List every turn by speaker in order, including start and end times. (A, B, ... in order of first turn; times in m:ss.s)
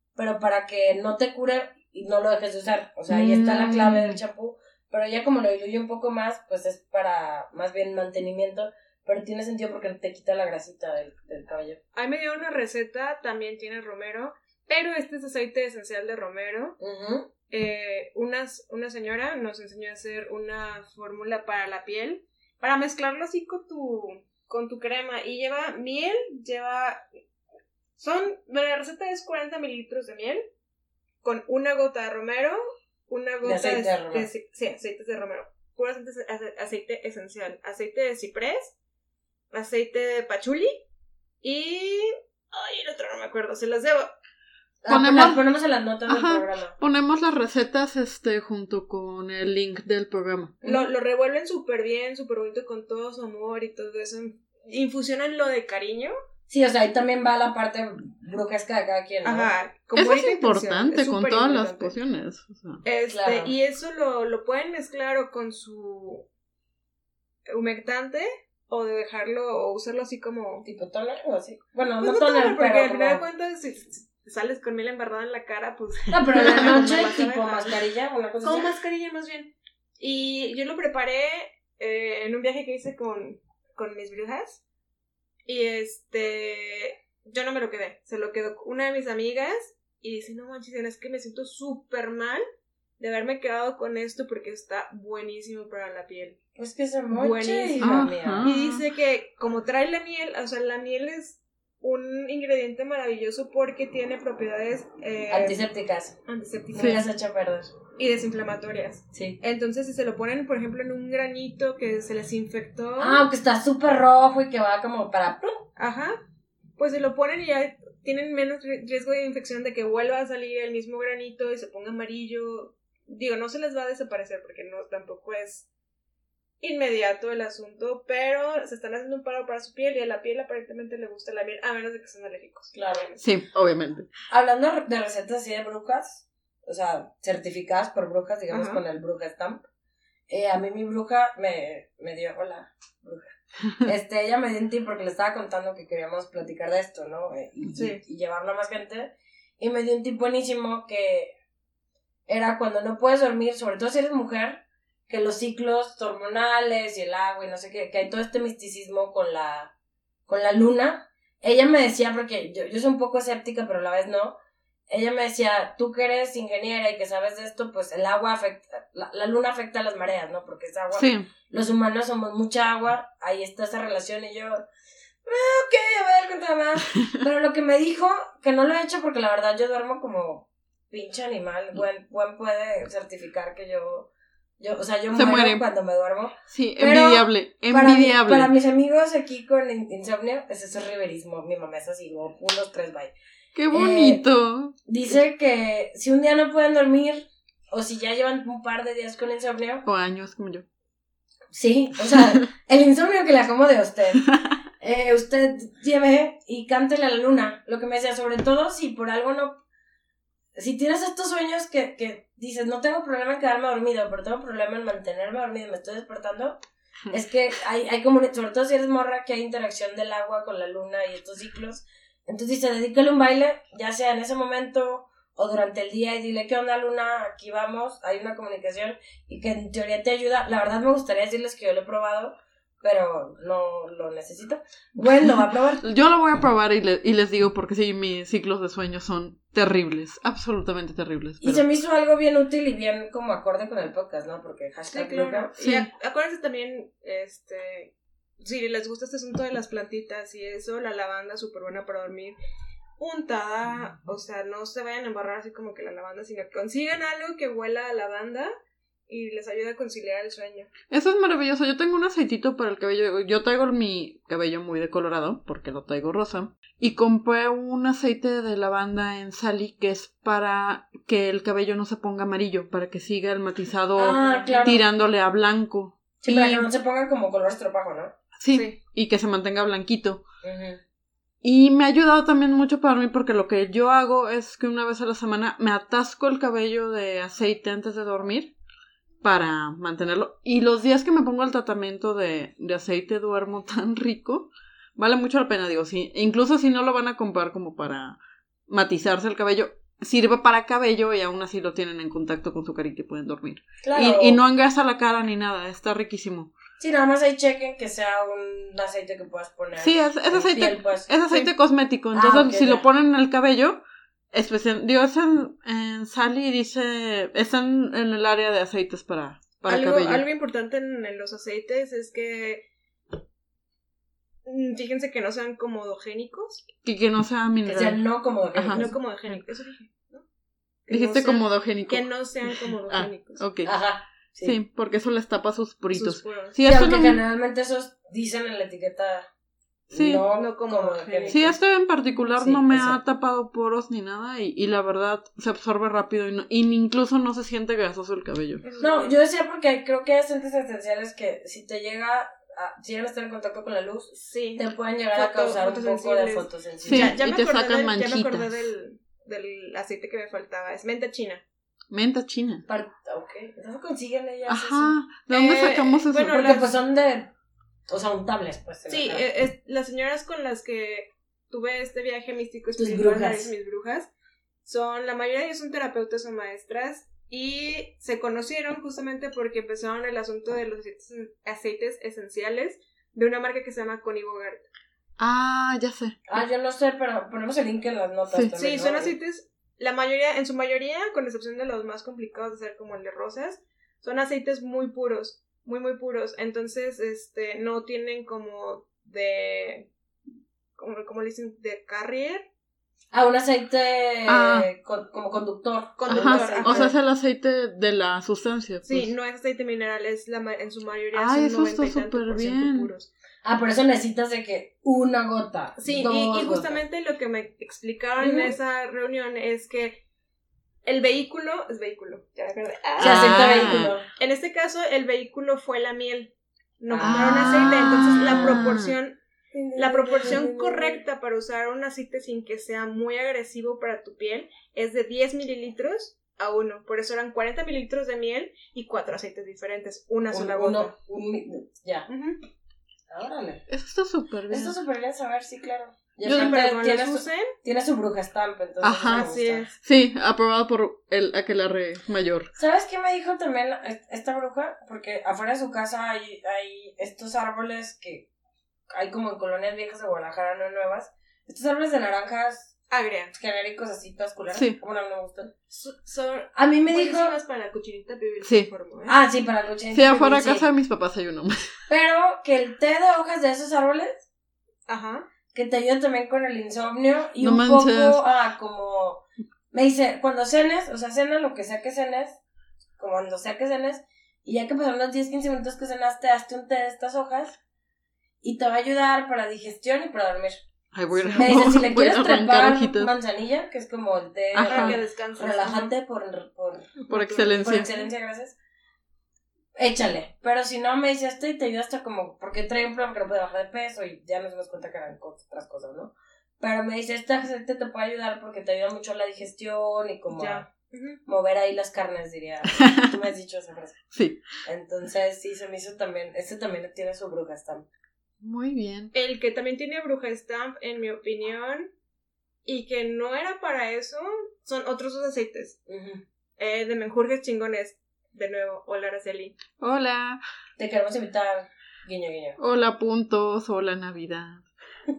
0:00.2-0:11.8 A
0:03.1-0:04.2 B
0:11.9-0:16.8 C
0:16.8-0:17.3 A
0:17.5-0:27.0 C
0:28.0-0:30.5 C
0:31.2-0:38.7 C
0:33.4-0:34.3 A
0:39.5-0:40.8 C
0:41.4-0:44.1 C
0:44.8-0:46.7 A
0:44.9-0:45.4 B
0:46.1-0:50.6 B
0:50.6-0:50.9 A
0:50.6-0:56.1 C
0:56.5-0:59.5 A
0:59.2-1:01.9 C
0:59.9-1:02.8 B
1:02.8-1:06.3 C
1:03.1-1:03.5 A
1:07.5-1:10.6 C
1:10.6-1:13.2 A
1:12.0-1:17.8 C
1:16.1-1:18.8 A
1:16.4-1:16.8 B
1:18.4-1:24.6 C
1:25.4-1:32.4 C
1:33.0-1:36.4 C
1:36.6-1:38.5 A
1:37.1-1:45.6 C
1:37.8-1:38.8 B
1:45.3-1:46.2 A
1:46.2-1:47.0 C
1:46.7-1:47.7 A
1:46.8-1:47.0 B
1:48.0-1:53.2 C
1:49.1-1:49.4 A
1:53.0-1:55.7 A
1:55.8-1:56.2 C
1:56.8-2:05.7 C
2:06.6-2:13.2 C
2:12.7-2:13.1 A
2:13.2-2:14.1 B
2:14.3-2:19.6 A
2:18.5-2:18.8 C
2:20.3-2:31.3 A
2:27.8-2:28.0 C
2:32.3-2:39.7 A
2:40.3-2:44.4 A
2:44.9-2:54.6 A
2:50.9-2:51.3 B
2:55.2-3:13.1 A
3:05.1-3:05.6 B
3:06.5-3:08.5 B
3:13.5-3:14.8 B
3:13.7-3:14.2 A
3:14.8-3:19.8 A
3:19.8-3:20.6 B
3:21.5-3:24.2 A
3:24.8-3:29.6 A
3:30.5-3:36.6 A
3:37.1-3:55.8 A
3:55.8-4:01.6 B
4:01.4-4:05.5 A
4:04.9-4:12.4 C
4:05.6-4:05.9 B
4:13.0-4:18.5 C
4:19.1-4:20.7 C
4:20.9-4:36.7 B
4:34.0-4:34.8 A
4:34.1-4:34.7 C
4:36.2-4:38.1 A
4:38.4-4:40.2 B
4:38.5-4:38.8 C
4:40.4-4:40.8 A
4:41.4-4:48.5 B
4:49.2-4:58.2 B
4:58.7-5:06.5 B
5:03.8-5:04.4 A
5:06.8-5:11.5 A
5:09.8-5:13.8 B
5:12.1-5:12.9 A
5:14.3-5:20.2 B
5:19.7-5:22.6 C
5:24.4-5:26.6 C
5:26.8-5:28.0 B
5:27.6-5:28.9 A
5:28.5-5:28.9 B
5:28.7-5:30.2 C
5:30.9-5:33.4 C
5:30.9-5:33.7 B
5:33.6-5:34.6 A
5:34.4-5:37.2 B
5:35.9-5:36.6 C
5:36.6-5:39.3 A
5:39.9-5:41.6 A
5:39.9-5:40.2 B
5:40.3-5:41.5 C
5:41.3-5:48.6 B
5:42.4-5:43.0 A
5:48.6-5:49.2 C
5:48.8-5:57.2 A
5:54.1-6:01.4 C
5:56.8-5:58.6 B
6:01.9-6:02.6 B
6:02.7-6:04.9 A
6:04.5-6:06.4 B
6:05.3-6:06.7 C
6:06.3-6:07.3 A
6:07.9-6:09.3 A
6:08.9-6:14.1 C
6:12.8-6:13.5 A
6:14.6-6:24.6 C
6:25.2-6:26.2 B
6:26.3-6:29.1 A
6:28.5-6:39.9 C
6:40.8-6:42.4 C
6:43.1-6:46.9 A
6:44.3-6:44.7 B
6:46.0-6:46.9 C
6:46.1-6:49.1 B
6:48.8-6:53.1 C
6:51.1-6:52.9 B
6:53.4-6:56.8 A
6:55.8-7:00.0 C
6:58.2-6:58.5 A
7:00.8-7:09.2 C
7:03.0-7:03.9 B
7:03.0-7:04.0 A
7:06.9-7:07.7 A
7:07.0-7:08.9 B
7:09.5-7:11.0 A
7:09.7-7:20.9 C
7:20.3-7:22.1 A
7:22.1-7:22.4 C
7:23.1-7:23.6 A
7:23.7-7:24.8 B
7:24.5-7:29.7 A
7:26.2-7:27.5 C
7:26.2-7:26.5 B
7:28.8-7:29.3 B
7:29.1-7:29.7 C
7:29.8-7:32.5 B
7:32.6-7:38.3 A
7:38.9-7:42.7 A
7:42.9-7:43.3 C
7:43.3-7:45.5 A
7:44.5-7:44.8 B
7:45.7-7:49.2 C
7:46.5-7:47.3 A
7:48.4-7:48.7 B
7:49.1-7:50.7 A
7:49.9-7:51.7 B
7:51.9-7:54.2 A
7:54.9-7:55.2 C
7:55.5-8:02.4 A
7:57.4-7:58.2 B
8:03.0-8:07.6 A
8:08.4-8:10.6 A
8:10.9-8:13.1 B
8:11.1-8:11.5 C
8:11.3-8:16.9 A
8:14.5-8:15.0 B
8:14.6-8:15.9 C
8:17.0-8:18.1 C
8:17.1-8:17.9 B
8:17.6-8:18.6 A
8:19.8-8:30.7 A
8:30.3-8:31.2 C
8:31.2-8:34.0 A
8:32.8-8:33.1 B
8:34.1-8:34.4 B
8:34.6-8:37.9 A
8:38.4-8:39.1 B
8:39.1-8:41.9 C
8:42.6-8:45.8 C
8:45.9-8:46.2 A
8:46.6-8:49.6 C
8:49.8-8:50.4 B
8:50.8-8:52.6 A
8:52.6-8:54.6 B